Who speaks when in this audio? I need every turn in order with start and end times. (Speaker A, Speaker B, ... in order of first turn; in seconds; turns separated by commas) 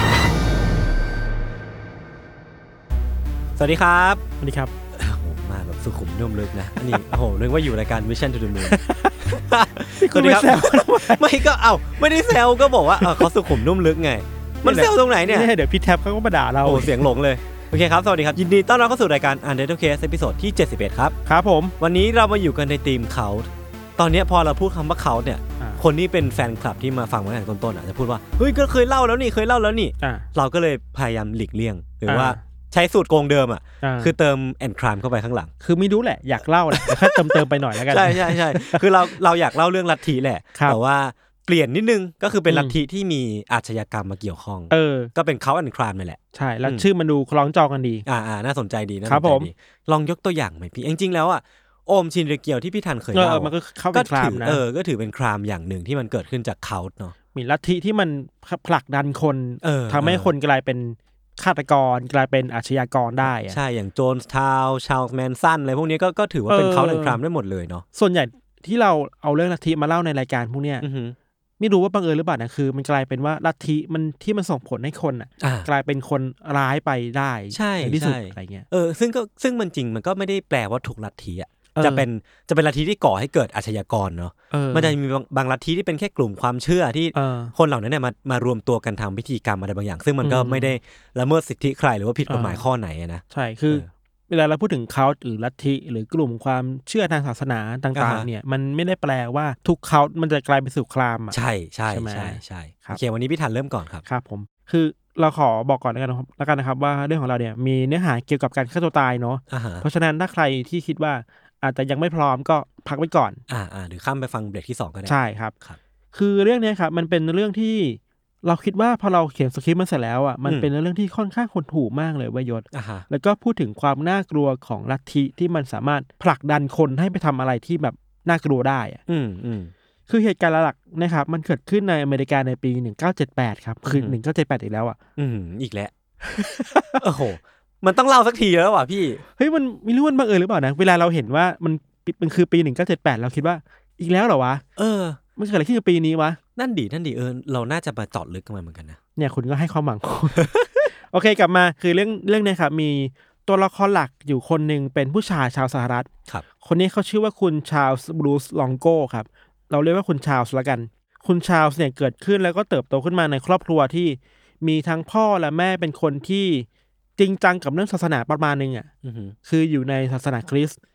Speaker A: 3.6-4.2, Speaker B: 4.4-4.7, Speaker A: 5.0-15.5, Speaker B: 8.6-9.2, Speaker B: 9.9-11.4, Speaker B: 13.0-13.3, Speaker B: 14.6-17.1, Speaker A: 16.6-21.2, Speaker B: 21.3-21.7, Speaker A: 21.8-35.5, Speaker B: 32.1-32.4, Speaker B: 33.8-34.1, Speaker B: 35.6-39.1, Speaker A: 36.7-46.9, Speaker B: 42.5-42.8, Speaker B: 44.7-45.1, Speaker B: 46.3-48.0, Speaker A: 48.0-57.1, Speaker B: 49.0-49.5, Speaker B: 53.1-54.6, Speaker B: 57.3-63.6, Speaker A: 59.6-60.3, Speaker A: 63.2-67.8, Speaker B: 66.5-67.2, Speaker B: 67.9-70.8, Speaker A: 70.8-71.2, Speaker B: 71.6-78.7, Speaker A: 75.4-75.7, Speaker A: 77.5-93.9, Speaker B: 81.7-82.0, Speaker B: 84.5-85.0, Speaker B: 87.1-87.5, Speaker B: 90.2-90.7, Speaker B: 92.3-92.6, Speaker B: 93.3-101.4, Speaker A: 97.9-98.3, Speaker A: 101.3-104.0, Speaker B: 101.9-103.0, Speaker B: 104.0-113.4, Speaker A: 109.5-109.8, Speaker A: 113.5-115.8, Speaker B: 115.0-115.5, Speaker B: 116.1-129.0, Speaker A: 122.7-123.1, Speaker A: 129.1-129.7, Speaker B: 130.1-135.0, Speaker A: 133.9-134.2, Speaker A: 135.2-135.9, Speaker B: 136.3-137.0, Speaker A: 137.0-139.2, Speaker B: 139.4-144.6, Speaker A: 144.8-145.2, Speaker B: 145.4-146.4, Speaker A: 146.6-149.0, Speaker B: 149.2-156.1, Speaker A: 150.4-150.7, Speaker B: 156.6-166.7, Speaker B: 167.2-168.9, Speaker A: 169.0-169.3, Speaker B: 169.5-170.8